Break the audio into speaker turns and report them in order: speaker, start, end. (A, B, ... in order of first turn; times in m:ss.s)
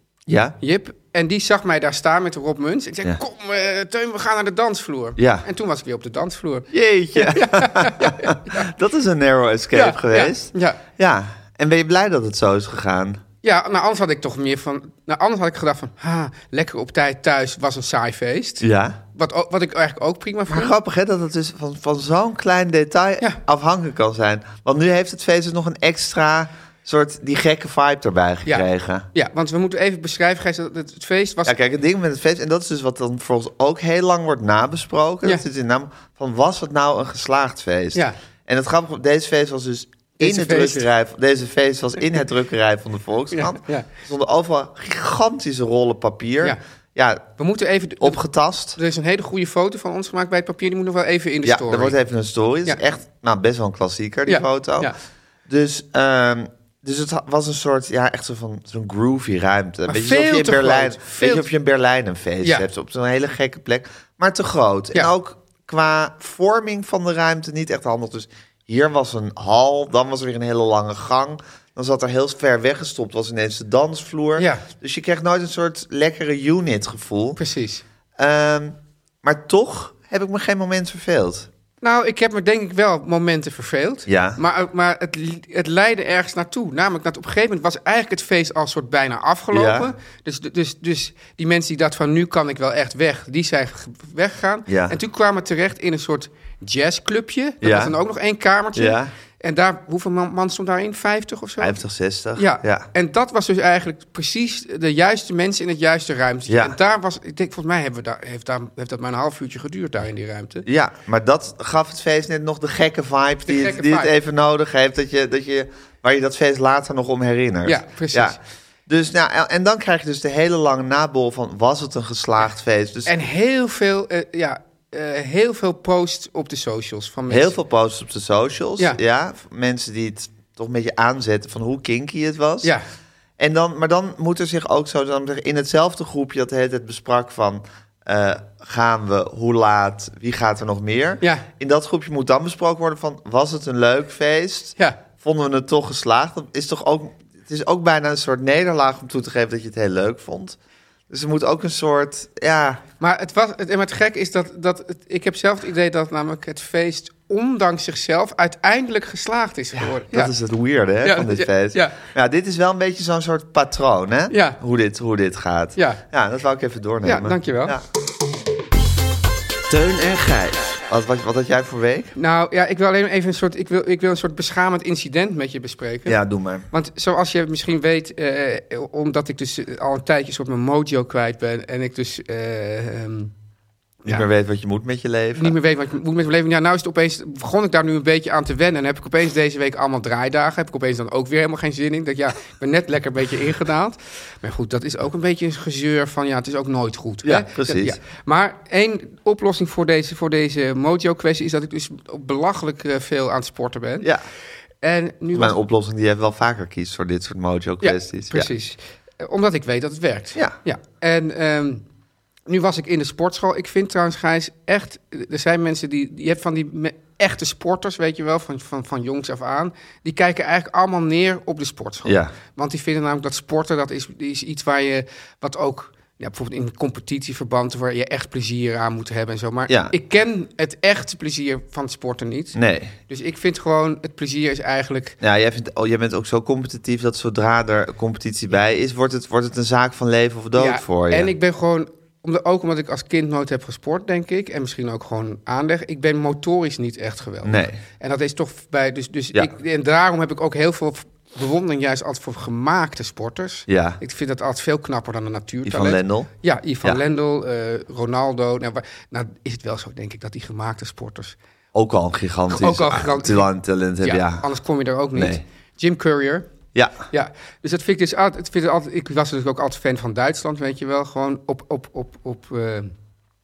0:00.3-0:00.6 A
0:00.6-0:08.7 B
0:05.2-0:05.4 A
0:06.7-0:13.2 A
0:09.7-0:10.8 B
0:13.4-0:18.6 B
0:18.6-0:19.0 A
0:19.2-0:20.7 B
0:20.5-0:29.0 A
0:28.4-0:31.5 B
0:31.4-0:47.2 A
0:40.2-0:40.8 B
0:43.3-0:43.9 B
0:47.4-0:48.2 B
0:48.0-0:48.8 A
0:48.8-0:52.0 B
0:51.4-0:54.9 A
0:54.2-0:54.9 B
0:55.5-1:17.4 A
0:59.9-1:01.4 B
1:02.4-1:02.7 B
1:14.4-1:14.6 B
1:17.4-1:17.8 B
1:18.2-1:21.5 A
1:21.8-1:41.8 B
1:24.0-1:24.4 A
1:29.5-1:29.9 A
1:34.7-1:35.0 A
1:37.6-1:37.9 A
1:38.7-1:39.1 A
1:41.6-1:42.9 A
1:42.4-1:50.6 B
1:46.5-1:46.8 A
1:50.6-2:03.1 A
1:53.4-1:54.1 B
1:57.6-1:58.4 B
2:03.0-2:07.6 B
2:07.3-2:12.7 A
2:13.4-2:30.6 A
2:21.2-2:21.5 B
2:31.1-2:32.8 A
2:33.0-2:40.3 B
2:39.8-2:47.8 A
2:41.0-2:42.0 B
2:44.3-2:44.6 B
2:45.8-2:46.0 B
2:47.0-2:47.7 B
2:49.7-2:52.1 A
2:52.2-2:56.2 B
2:56.0-2:56.7 A
2:56.7-3:03.3 B
3:04.0-3:05.6 A
3:05.4-3:24.1 B
3:17.2-3:18.0 A
3:24.8-3:25.6 B
3:25.3-3:28.5 A
3:27.8-3:31.8 B
3:32.5-3:52.6 B
3:42.0-3:42.3 A
3:49.7-3:49.9 A
3:52.5-3:52.9 A
3:53.1-3:55.2 B
3:55.2-4:01.3 A
4:00.6-4:21.4 B
4:07.4-4:07.8 A
4:13.7-4:14.0 A
4:15.6-4:16.3 A
4:21.7-4:24.4 A
4:22.5-4:23.5 B
4:24.0-4:26.5 B
4:25.1-4:25.4 A
4:26.7-4:27.0 A
4:27.1-4:32.9 B